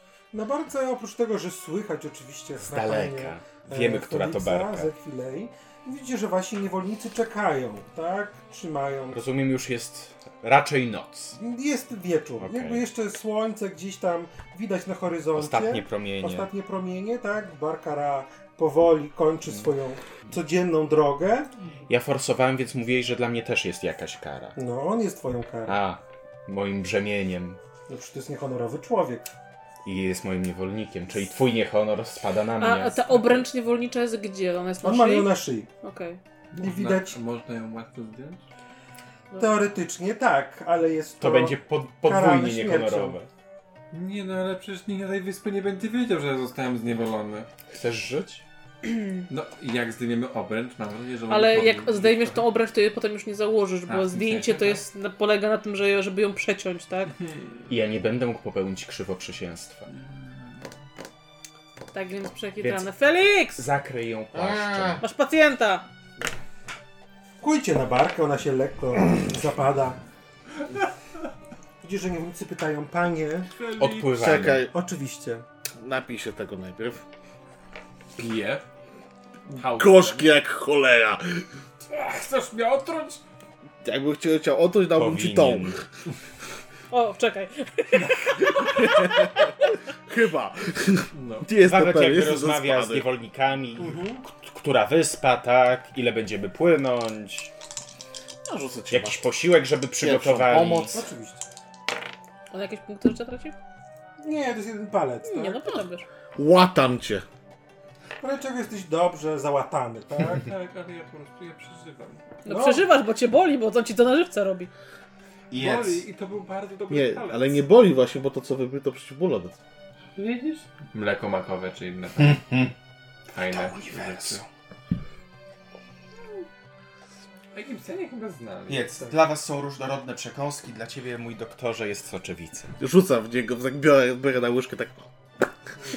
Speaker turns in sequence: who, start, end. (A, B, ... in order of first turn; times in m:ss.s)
0:00.3-0:09.2 A
0:02.6-0:04.9 B
0:09.1-0:11.4 B
0:11.4-0:21.5 A
0:12.4-0:12.8 B
0:15.3-0:16.5 B
0:21.9-0:24.6 B
0:24.6-0:25.8 A
0:25.6-0:27.6 B
0:27.9-0:29.3 A
0:29.8-0:33.4 B
0:32.6-0:36.2 C
0:34.8-0:35.7 A
0:36.5-0:38.4 D
0:36.6-0:37.2 A
0:39.4-0:43.2 A
0:41.2-0:43.3 B
0:43.9-0:47.5 D
0:47.7-0:48.4 B
0:48.8-0:49.2 C
0:49.3-0:52.4 D
0:51.3-0:57.1 C
0:53.9-0:54.8 D
0:57.2-0:57.6 D
0:57.7-0:59.9 B
0:59.9-1:00.7 D
1:01.9-1:03.7 C
1:02.6-1:02.9 B
1:03.5-1:05.0 B
1:04.3-1:05.0 E
1:05.0-1:05.8 C
1:07.4-1:10.0 A
1:11.8-1:13.5 A
1:13.5-1:14.2 D
1:13.8-1:14.7 B
1:14.1-1:14.7 E
1:14.6-1:15.4 A
1:15.8-1:17.0 E
1:18.2-1:18.6 D
1:19.5-1:20.4 D
1:19.6-1:21.4 E
1:21.8-1:23.2 D
1:23.8-1:25.8 E
1:24.9-1:25.8 B
1:26.9-1:29.4 C
1:28.5-1:33.1 E
1:31.1-1:31.5 D
1:31.6-1:37.5 B
1:33.8-1:34.2 A
1:38.4-1:39.3 E
1:38.9-1:41.0 B
1:40.0-1:41.0 E
1:40.9-1:41.4 A
1:42.5-1:43.6 C
1:44.2-1:45.7 A
1:45.2-1:46.0 C
1:46.4-1:47.2 E
1:48.2-1:50.5 A
1:50.2-1:52.3 D
1:52.4-1:54.7 C
1:52.4-1:52.9 A
1:55.5-1:56.0 B
1:55.5-1:57.7 D
1:56.9-1:59.6 E
2:00.2-2:02.4 D
2:02.2-2:02.7 B
2:03.3-2:04.4 D
2:03.4-2:04.5 B
2:07.5-2:09.1 D
2:08.7-2:12.8 B
2:12.8-2:15.1 E